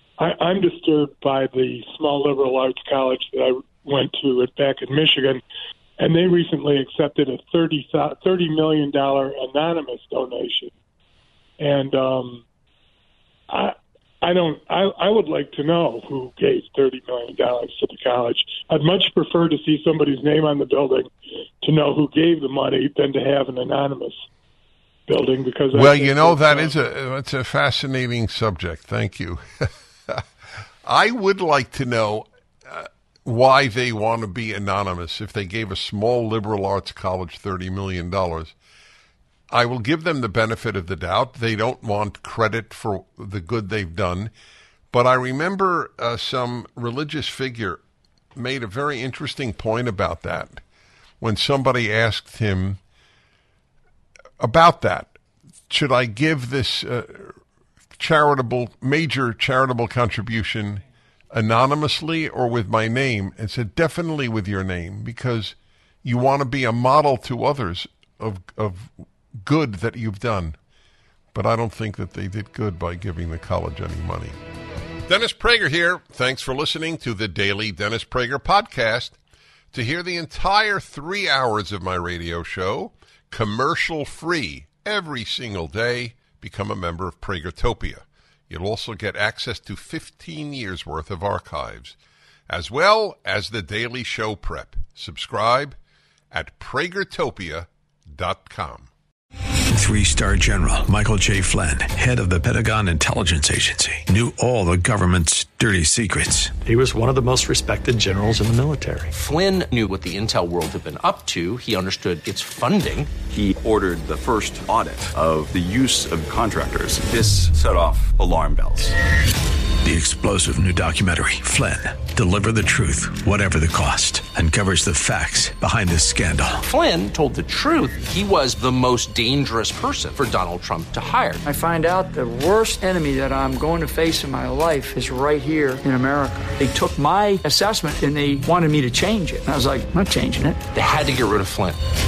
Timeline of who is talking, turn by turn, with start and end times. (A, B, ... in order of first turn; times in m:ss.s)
0:00.2-0:05.4 A
0:06.0-0:10.7 A
0:11.6-0:12.4 A
0:13.5-0:21.1 A
0:21.6-0:24.2 A
0:25.1-0:26.8 A
0:25.7-0:30.2 B
0:30.8-0:38.5 B
0:39.5-0:44.3 B
0:44.9-0:47.8 B
0:48.4-0:50.6 B
0:51.2-0:52.8 B
0:54.4-0:55.1 B
0:55.7-0:57.4 B
0:58.0-1:10.6 B
1:11.3-1:14.4 B
1:15.1-1:19.2 B
1:19.7-1:32.0 B
1:32.5-1:35.8 B
1:36.3-1:38.9 B
1:39.7-1:46.6 C
1:46.6-1:49.1 D
1:49.1-1:53.1 E
1:53.2-1:59.0 F
1:59.8-2:06.6 C
2:06.6-2:11.4 E
2:11.4-2:20.6 G
2:20.7-2:21.8 E